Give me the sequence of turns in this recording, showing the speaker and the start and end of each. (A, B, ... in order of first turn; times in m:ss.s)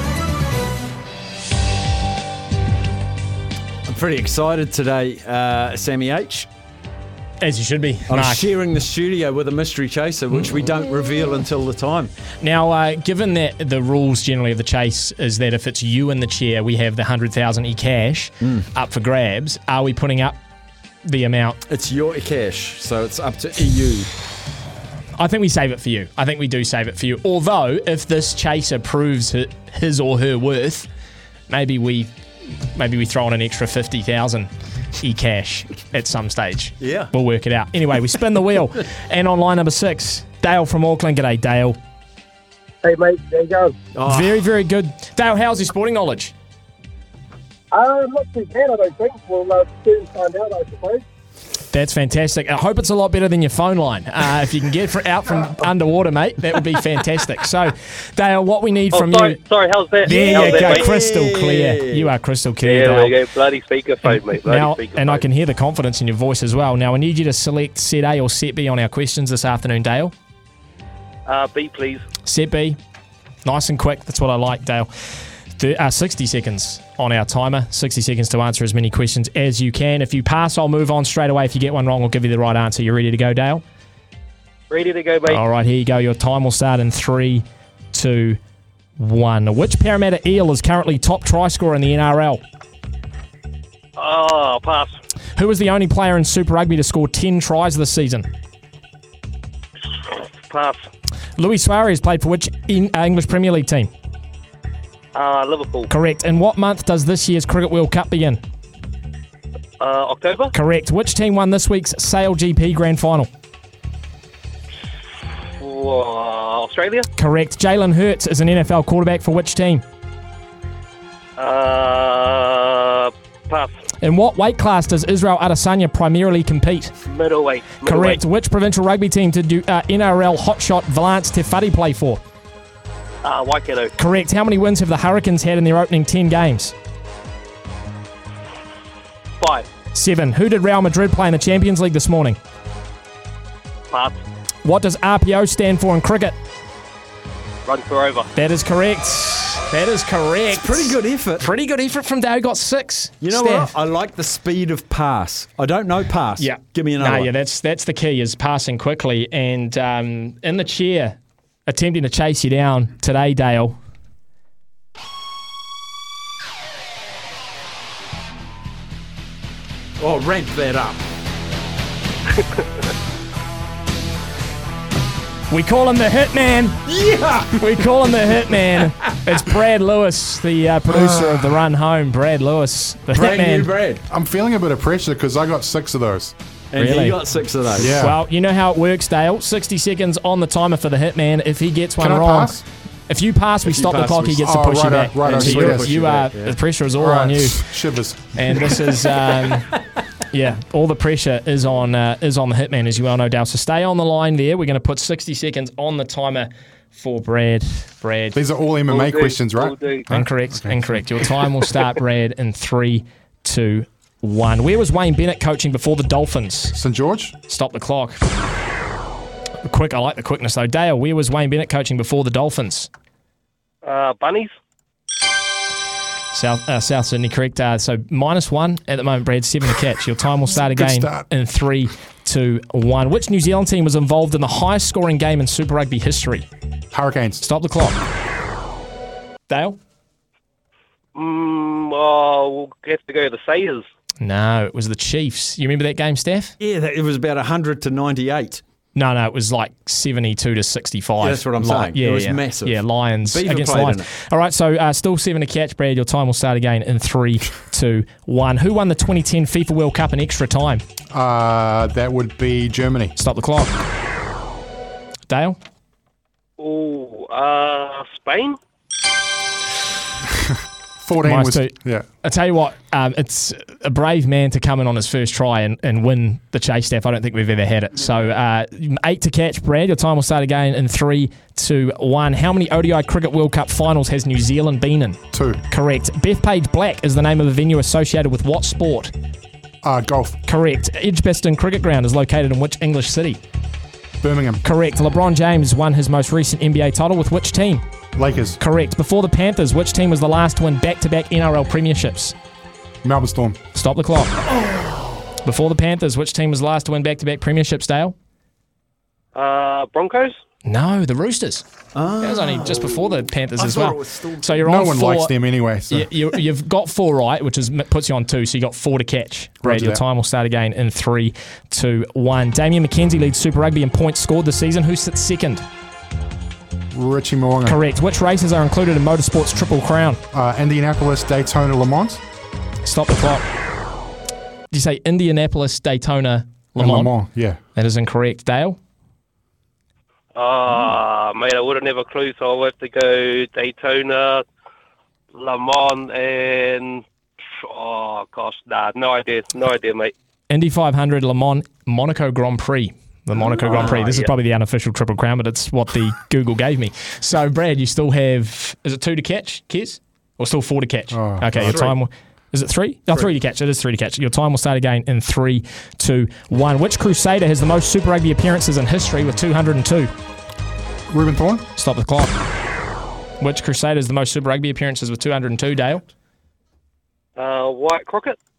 0:03.8-0:06.5 A
0:07.4-0:08.5 B
0:08.1-0:12.1 A
0:12.4-0:20.4 B
0:21.0-0:21.6 B
0:21.7-0:24.1 A
0:25.2-0:30.9 B
0:31.5-0:32.1 B
0:32.7-0:41.8 B
0:36.8-0:37.1 A
0:42.8-0:43.7 C
0:43.9-0:44.4 A
0:44.1-0:46.3 B
0:47.7-0:51.0 C
0:51.7-0:59.4 B
0:58.9-1:00.9 C
1:00.0-1:03.1 B
1:00.2-1:02.1 A
1:02.6-1:05.2 C
1:04.0-1:10.1 B
1:11.3-1:12.0 C
1:12.2-1:12.8 B
1:13.4-1:23.6 B
1:24.7-1:25.4 C
1:25.3-1:28.4 B
1:29.0-1:32.4 B
1:34.0-1:34.9 C
1:35.4-1:38.3 B
1:40.1-1:40.8 C
1:41.4-1:43.9 B
1:45.1-1:45.9 C
1:45.9-1:48.4 B
1:49.8-1:50.5 C
1:50.5-1:53.3 B
1:55.6-1:57.1 C
1:57.1-1:59.8 B
2:01.4-2:03.7 C
2:04.0-2:06.9 B
2:07.0-2:08.2 C
2:07.8-2:12.2 B
2:13.2-2:13.9 C
2:14.0-2:16.7 B
2:19.4-2:19.7 C
2:19.9-2:22.4 B
2:23.9-2:24.2 C
2:24.6-2:26.4 B
2:27.6-2:28.3 C
2:28.3-2:33.7 B
2:30.5-2:31.5 A
2:33.2-2:37.3 A
2:36.4-2:43.8 B
2:50.0-2:51.0 A
2:55.5-2:56.9 B
2:56.9-2:57.6 A
2:57.6-3:03.7 B
3:00.9-3:01.6 D
3:03.1-3:04.0 A
3:04.1-3:06.3 D
3:06.7-3:08.0 A
3:06.8-3:07.2 B
3:07.8-3:08.2 D
3:07.9-3:17.7 B
3:12.0-3:12.6 D
3:13.6-3:14.4 A
3:14.4-3:15.9 D
3:15.2-3:16.6 A
3:17.0-3:18.3 D
3:18.3-3:19.7 B
3:20.3-3:28.4 B
3:28.3-3:31.0 D
3:28.9-3:30.1 C
3:30.1-3:36.8 B
3:36.7-3:37.4 D
3:37.5-3:38.2 B
3:39.6-3:42.9 B
3:43.8-3:44.5 C
3:46.3-3:56.5 B
3:50.5-3:51.3 D
3:56.9-3:57.4 D
3:57.4-3:58.0 B
3:59.5-3:59.8 B
4:01.1-4:03.8 C
4:04.2-4:06.5 B
4:06.6-4:08.6 A
4:08.9-4:20.8 B
4:11.2-4:14.1 A
4:21.1-4:23.1 D
4:23.2-4:23.8 B
4:25.3-4:25.6 B
4:26.6-4:28.6 C
4:31.0-4:32.0 D
4:31.2-4:49.1 B
4:45.3-4:45.6 D
4:49.8-4:50.4 D
4:50.4-4:53.4 B
4:54.2-4:54.6 D
4:54.6-4:57.8 B
4:58.2-4:58.6 D
4:58.6-5:02.3 B
5:03.0-5:03.6 D
5:03.7-5:04.4 B
5:04.4-5:05.4 A
5:05.4-5:08.1 B
5:09.3-5:10.4 C
5:10.6-5:11.6 B
5:11.9-5:14.6 A
5:12.2-5:15.3 B
5:14.6-5:16.1 D
5:15.9-5:25.6 B
5:19.6-5:20.0 D
5:26.9-5:27.8 D
5:27.6-5:30.2 B
5:30.3-5:32.2 D
5:32.8-5:33.4 B
5:34.7-5:37.2 B
5:36.8-5:37.6 D
5:37.7-5:38.8 B
5:40.3-5:44.4 C
5:45.3-5:47.0 C
5:47.6-5:50.1 C
5:50.5-6:10.1 B
5:53.5-5:54.3 C
5:53.6-5:54.1 A
6:01.1-6:01.9 D
6:01.6-6:02.0 A
6:11.1-6:11.7 D
6:11.8-6:12.3 B
6:13.4-6:16.0 B
6:17.4-6:18.4 C